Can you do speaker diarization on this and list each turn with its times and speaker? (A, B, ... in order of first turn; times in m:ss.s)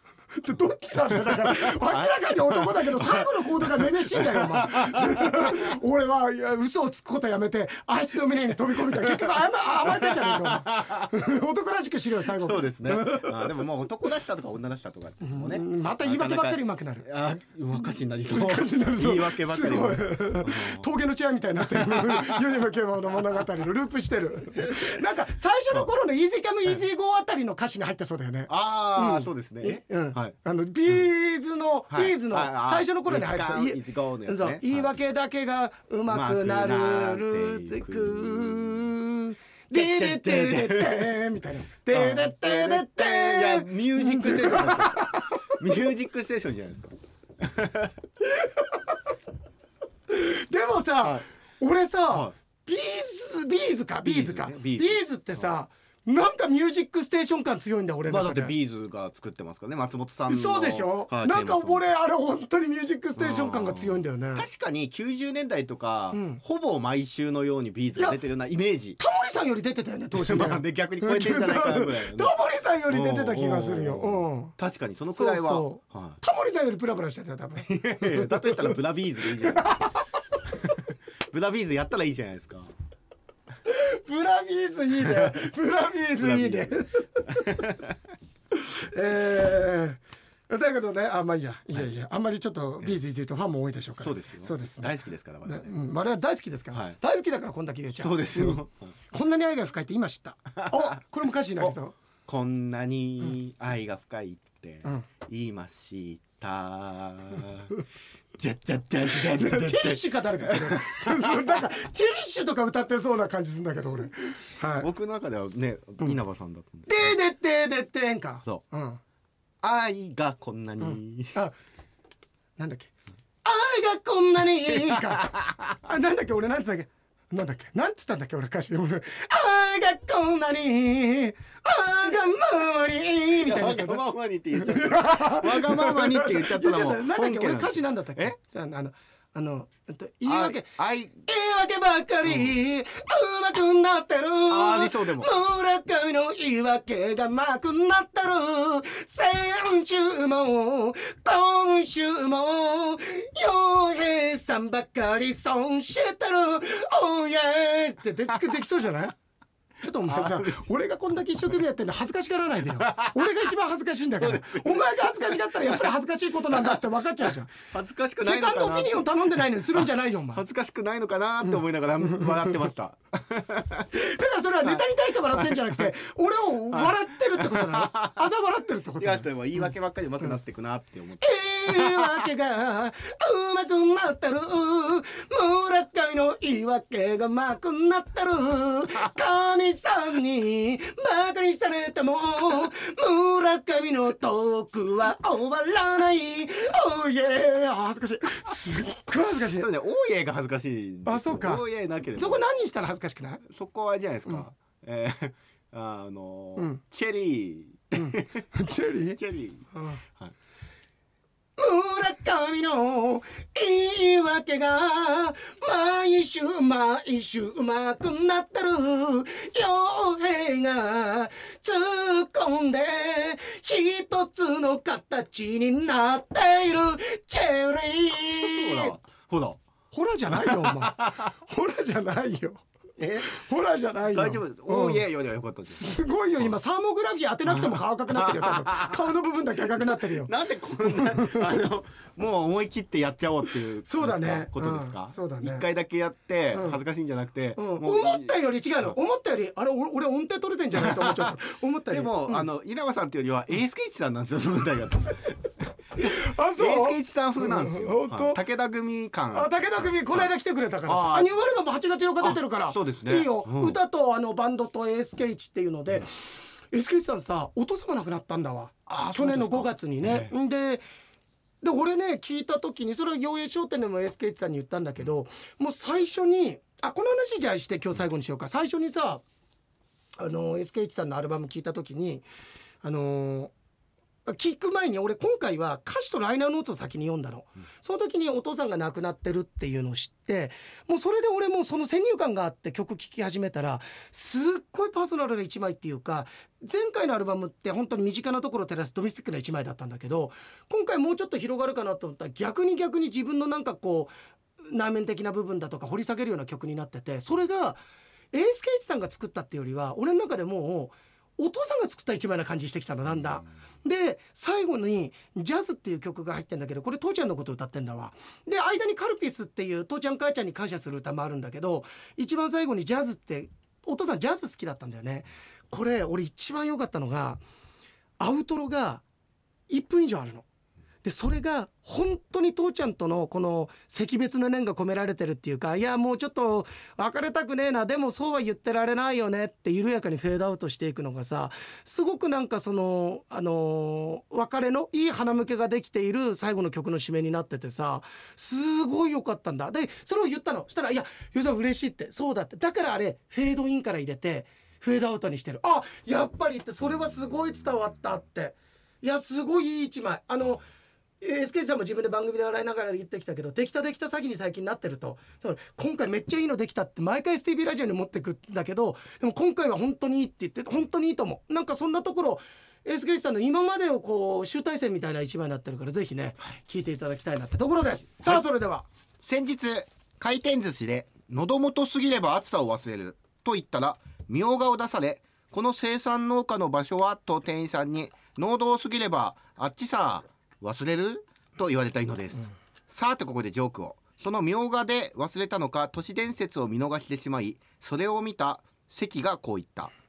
0:00.3-0:13.7 A
0:01.1-0:05.7 B
0:08.9-0:11.1 B
0:12.2-0:20.9 B
0:15.2-0:17.1 A
0:17.8-0:45.7 A
0:21.6-0:22.4 B
0:24.5-0:25.0 B
0:28.5-0:30.3 B
0:31.9-0:35.0 B
0:36.1-0:38.9 B
0:39.7-0:41.1 B
0:41.9-0:47.9 B
0:50.1-0:58.5 A
0:54.0-0:55.5 B
0:58.1-1:01.9 B
1:00.3-1:04.5 A
1:03.2-1:09.0 B
1:06.1-1:06.4 A
1:09.0-1:14.6 A
1:10.1-1:12.3 B
1:12.9-1:16.2 B
1:15.1-1:20.1 A
1:17.6-1:20.0 B
1:20.6-1:22.7 B
1:23.6-1:27.5 A
1:25.0-1:25.5 B
1:26.2-1:28.0 B
1:28.5-1:41.9 A
1:34.0-1:35.8 B
1:38.0-1:38.9 B
1:40.6-1:41.0 B
1:42.3-1:47.7 B
1:48.4-1:54.9 A
1:49.0-1:51.6 B
1:54.6-1:57.2 B
1:56.9-1:59.0 A
1:59.6-2:01.4 B
2:00.9-2:01.5 A
2:02.6-2:02.9 A
2:03.4-2:14.0 A
2:04.7-2:05.8 B
2:13.4-2:18.3 B
2:14.6-2:20.7 A
2:20.2-2:21.2 B
2:21.2-2:39.1 A
2:22.2-2:22.6 B
2:24.5-2:25.3 B
2:39.8-2:47.5 A
2:40.0-2:40.7 B
2:42.7-2:43.3 B
2:44.2-2:45.9 B
2:46.5-2:46.8 B
2:47.5-2:49.2 B
2:48.2-2:50.4 A
2:49.7-2:53.9 B
2:53.9-2:59.3 A
2:55.4-2:55.8 B
2:56.7-2:58.2 B
2:59.0-3:02.3 B
3:01.2-3:19.7 A
3:19.5-3:22.4 B
3:21.0-3:21.6 A
3:22.2-3:23.4 A
3:23.4-3:28.5 B
3:28.0-3:29.2 A
3:29.1-3:30.3 B
3:29.7-3:30.0 A
3:31.6-3:49.0 A
3:48.3-3:49.6 B
3:49.9-3:52.6 A
3:50.3-3:51.3 B
3:53.0-3:53.3 B
3:53.2-3:55.0 A
3:54.1-3:56.5 B
3:55.7-4:00.3 A
3:57.5-3:59.0 B
3:59.8-4:08.4 B
4:00.8-4:01.5 A
4:03.9-4:05.6 A
4:06.5-4:06.8 A
4:07.6-4:12.4 A
4:10.8-4:11.3 B
4:11.9-4:20.3 B
4:16.0-4:18.4 A
4:19.3-4:30.8 A
4:20.9-4:21.4 B
4:22.2-4:23.8 B
4:28.9-4:30.3 B
4:31.6-4:39.2 A
4:40.2-4:42.2 A
4:42.8-4:43.5 A
4:44.2-5:07.8 A
5:08.3-5:27.4 A
5:28.2-5:29.0 A
5:29.7-5:30.4 A
5:31.0-6:00.7 A
6:01.2-6:18.9 A
6:19.2-6:39.9 B